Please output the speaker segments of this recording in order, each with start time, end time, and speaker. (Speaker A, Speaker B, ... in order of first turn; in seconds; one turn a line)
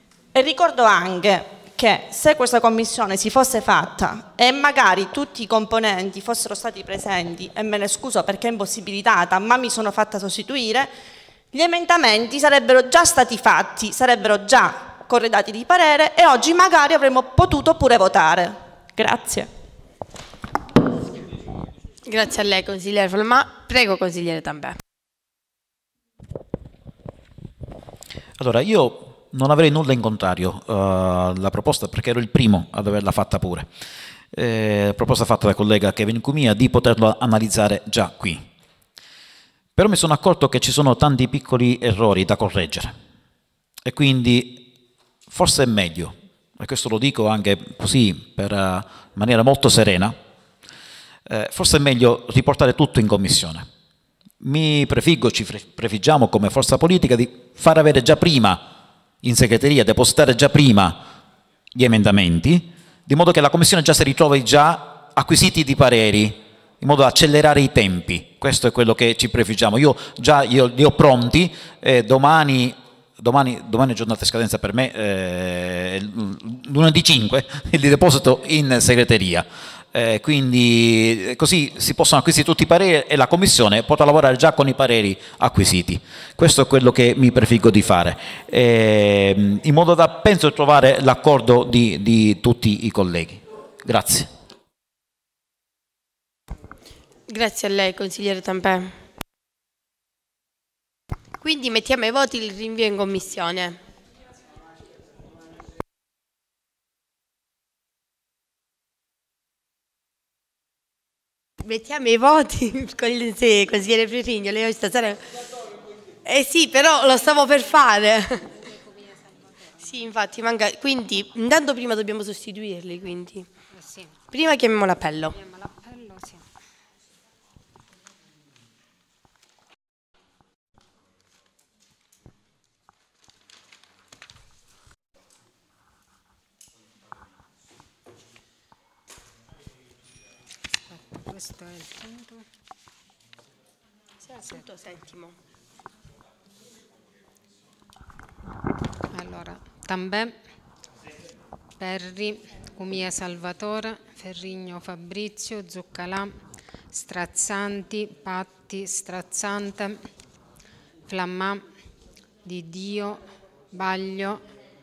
Speaker A: 0.3-10.9
Speaker A: 11.5-19.5
Speaker B: 22.1-24.8
Speaker C: 28.4-33.7
Speaker C: 34.3-38.5
Speaker C: 39.8-42.9
Speaker C: 43.8-44.7
Speaker C: 45.3-50.2
Speaker C: 51.3-53.7
Speaker C: 54.4-58.6
Speaker C: 59.2-61.1
Speaker C: 61.7-94.3
Speaker B: 97.3-98.9
Speaker B: 101.4-103.8
Speaker B: 111.6-115.2
Speaker B: 116.2-118.4
Speaker D: 118.5-119.8
Speaker B: 119.8-123.5
Speaker D: 123.8-124.1
Speaker B: 124.3-125.3
Speaker D: 125.3-126.4
Speaker D: 140.9-142.4
Speaker B: 144.2-145.3
Speaker D: 149.1-150.3
Speaker D: 151.8-156.4
Speaker D: 156.9-160.0
Speaker D: 161.1-161.6
Speaker D: 162.4-164.4